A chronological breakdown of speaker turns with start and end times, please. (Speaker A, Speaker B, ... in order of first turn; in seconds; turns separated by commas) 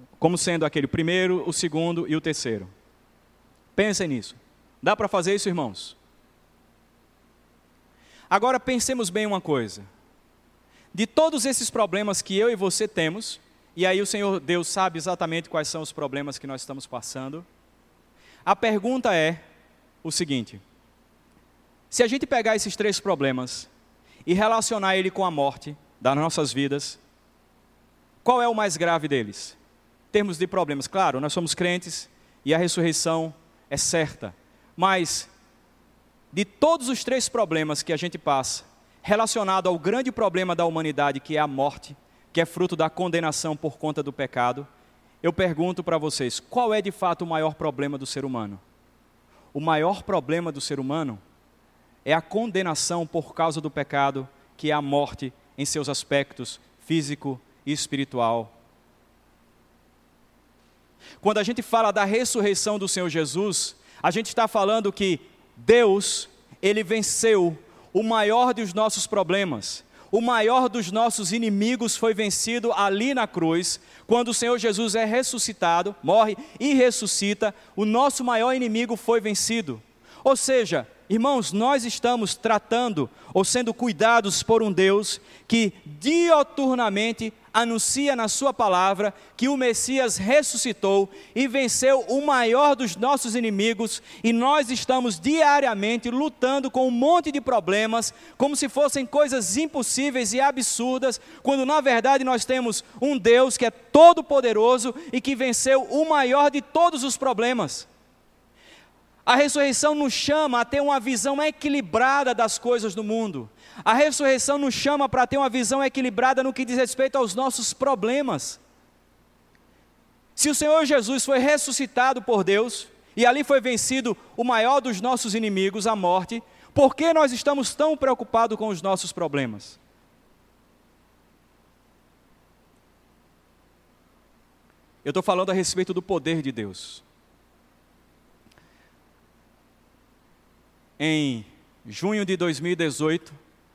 Speaker A: 0.2-2.7, Speaker A: 3.7-6.0, Speaker A: 8.3-9.9, Speaker A: 10.9-17.4, Speaker A: 18.4-19.4, Speaker A: 20.0-20.6, Speaker A: 21.9-23.7, Speaker A: 24.3-27.0, Speaker A: 28.2-29.6, Speaker A: 30.1-35.3, Speaker A: 36.3-44.7, Speaker A: 45.2-48.6, Speaker A: 49.5-51.2, Speaker A: 52.0-58.5, Speaker A: 61.2-107.9, Speaker A: 109.3-118.6, Speaker A: 120.4-129.8, Speaker A: 135.0-137.0, Speaker A: 141.0-143.4